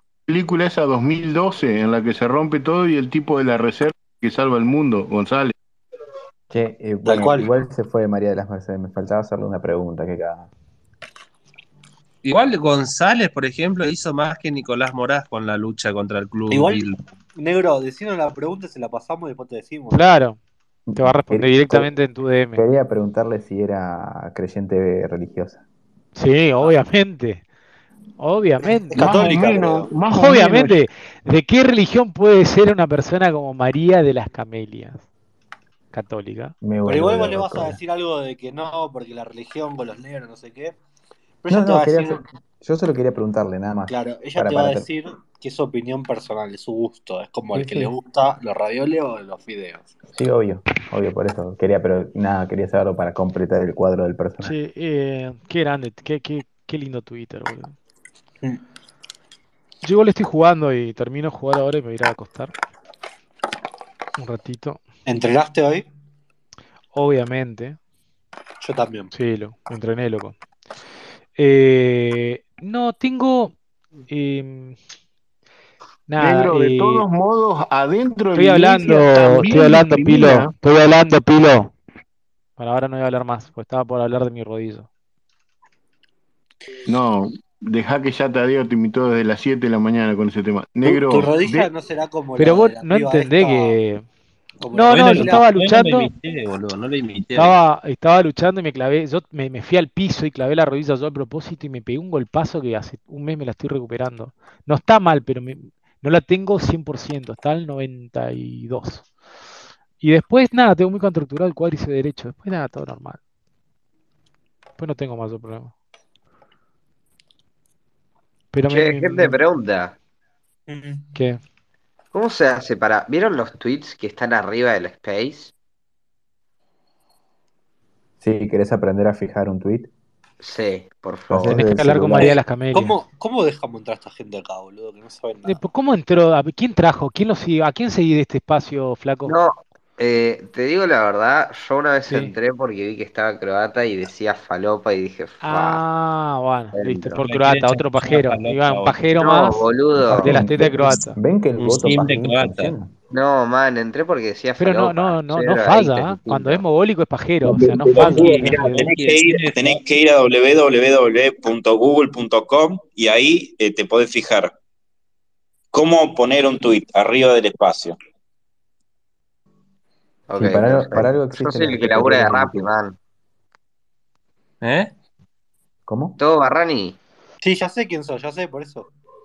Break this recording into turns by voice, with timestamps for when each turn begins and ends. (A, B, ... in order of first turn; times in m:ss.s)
0:00.3-0:05.5 A
0:06.5-0:10.5 B
0:07.1-0:07.5 C
0:12.2-0:17.0 D
0:16.5-0:20.0 C
0:19.9-0:20.4 E
0:20.9-0:21.9 B
0:21.0-0:22.6 E
0:22.6-0:25.6 B
0:26.2-0:27.4 E
0:28.2-0:29.1 E
0:28.6-0:29.9 C
0:29.0-0:30.8 A
0:30.1-0:35.0 E
0:35.9-0:36.6 E
0:36.6-0:37.8 B
0:36.8-0:40.8 C
0:41.4-0:42.2 C
0:41.5-0:44.9 B
0:43.9-0:49.9 C
0:47.6-0:47.9 B
0:50.1-0:54.5 B
0:54.4-0:57.7 E
0:59.8-1:02.5 E
1:04.2-1:04.8 E
1:05.1-1:05.8 C
1:06.9-1:07.8 E
1:08.6-1:09.1 C
1:09.1-1:10.4 E
1:11.4-1:13.5 E
1:14.1-1:14.8 E
1:16.1-1:17.0 E
1:16.2-1:20.5 A
1:18.4-1:21.7 E
1:22.6-1:24.9 E
1:26.9-1:31.7 A
1:30.8-1:33.8 C
1:32.4-1:34.1 E
1:34.6-1:35.4 C
1:34.7-1:36.1 E
1:34.9-1:37.6 D
1:37.4-1:49.1 E
1:50.0-1:53.2 E
1:54.8-1:55.7 E
1:58.5-1:59.4 E
1:58.7-2:00.0 F
2:00.7-2:01.0 C
2:01.2-2:01.4 E
2:02.1-2:05.5 F
2:08.2-2:09.9 B
2:10.4-2:11.6 F
2:11.3-2:12.4 B
2:11.4-2:13.0 E
2:12.7-2:15.6 C
2:15.5-2:19.4 E
2:19.3-2:25.8 F
2:22.1-2:22.3 E
2:25.4-2:31.2 E
2:26.7-2:27.2 F
2:27.2-2:29.1 D
2:29.2-2:30.4 F
2:30.0-2:32.9 B
2:31.6-2:32.7 D
2:33.1-2:36.6 F
2:34.6-2:38.9 E
2:37.5-2:44.5 G
2:37.9-2:39.8 D
2:45.7-2:48.0 G
2:50.3-2:53.0 F
2:50.4-2:52.7 B
2:54.6-2:54.9 D
2:55.9-2:56.2 B
2:56.2-2:57.0 F
2:57.4-2:58.9 C